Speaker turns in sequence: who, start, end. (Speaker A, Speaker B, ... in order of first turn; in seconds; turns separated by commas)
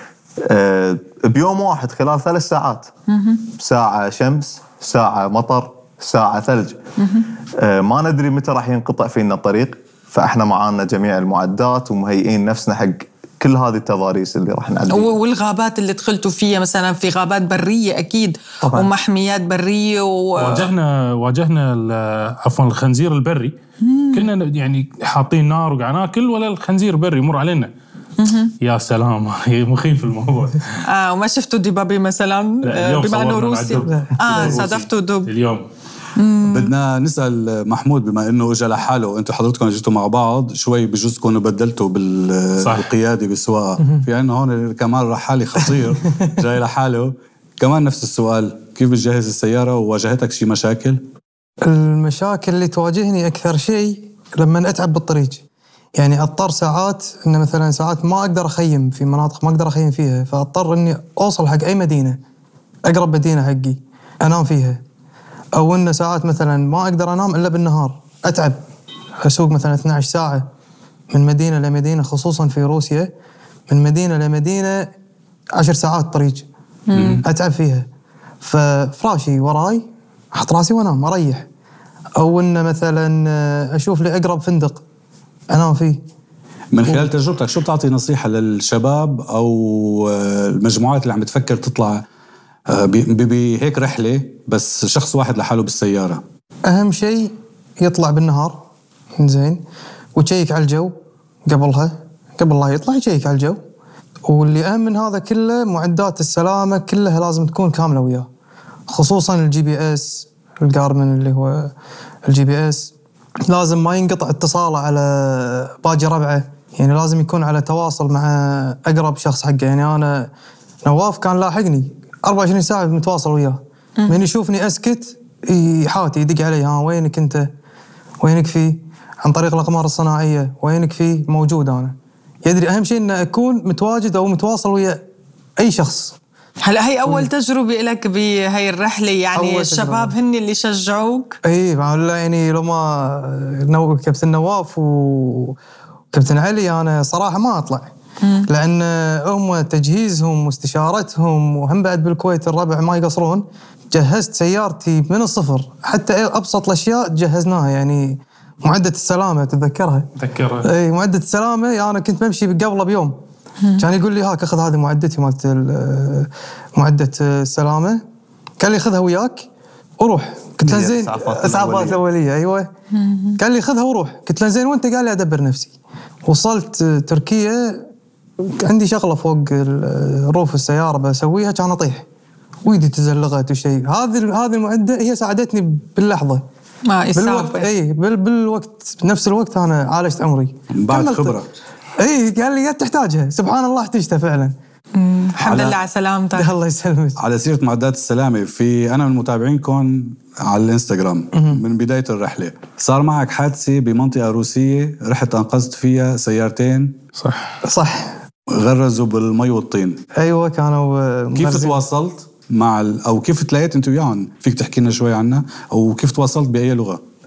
Speaker A: 0.4-2.9, Speaker B: 3.1-3.4, Speaker A: 3.5-6.8, Speaker B: 7.0-7.3, Speaker A: 7.5-15.1, Speaker B: 14.9-20.7, Speaker A: 18.6-18.9, Speaker C: 20.4-23.6, Speaker B: 23.8-24.3, Speaker C: 24.1-27.7, Speaker B: 28.2-28.5, Speaker C: 28.6-30.8, Speaker B: 30.9-35.3, Speaker C: 32.6-35.7, Speaker B: 36.2-36.7, Speaker D: 36.5-51.0, Speaker C: 42.6-42.9, Speaker E: 51.6-55.4, Speaker E: 56.0-62.2, Speaker E: 62.9-64.8, Speaker E: 65.6-68.6, Speaker E: 69.2-70.5, Speaker E: 71.1-73.1, Speaker E: 73.7-74.9, Speaker E: 75.5-76.5, Speaker B: 76.9-77.2, Speaker D: 76.9-77.2, Speaker E: 77.2-77.9, Speaker E: 78.4-81.5, Speaker E: 82.2-84.8, Speaker E: 85.5-86.0, Speaker D: 86.7-92.0, Speaker D: 92.7-96.2, Speaker E: 96.7-98.6, Speaker E: 99.2-99.6, Speaker E: 100.2-100.9, Speaker E: 101.5-103.6, Speaker E: 104.2-108.3, Speaker E: 108.9-111.7, Speaker E: 112.3-112.9, Speaker E: 113.5-120.3, Speaker E: 120.8-127.5, Speaker E: 128.2-135.0, Speaker E: 135.6-136.2, Speaker B: 136.6-141.4, Speaker E: 139.3-140.2, Speaker E: 141.4-145.6, Speaker E: 146.1-147.9, Speaker B: 148.2-148.5, Speaker E: 148.5-160.1, Speaker C: 160.2-160.7, Speaker E: 160.6-163.1, Speaker E: 163.8-168.0, Speaker E: 168.6-169.5, Speaker E: 170.0-172.7, Speaker A: 170.6-172.0, Speaker B: 172.9-173.4, Speaker E: 173.4-175.7, Speaker E: 176.3-177.8, Speaker E: 178.4-182.1, Speaker E: 182.7-186.4, Speaker B: 186.9-187.7, Speaker E: 187.1-191.4, Speaker D: 190.7-191.5, Speaker E: 192.0-194.6, Speaker B: 194.9-196.5, Speaker D: 195.4-195.8, Speaker E: 196.3-197.2, Speaker D: 197.2-207.0, Speaker E: 201.3-201.6, Speaker C: 207.2-207.5, Speaker E: 207.6-208.1, Speaker D: 208.5-210.0, Speaker E: 210.2-211.8, Speaker D: 211.3-217.0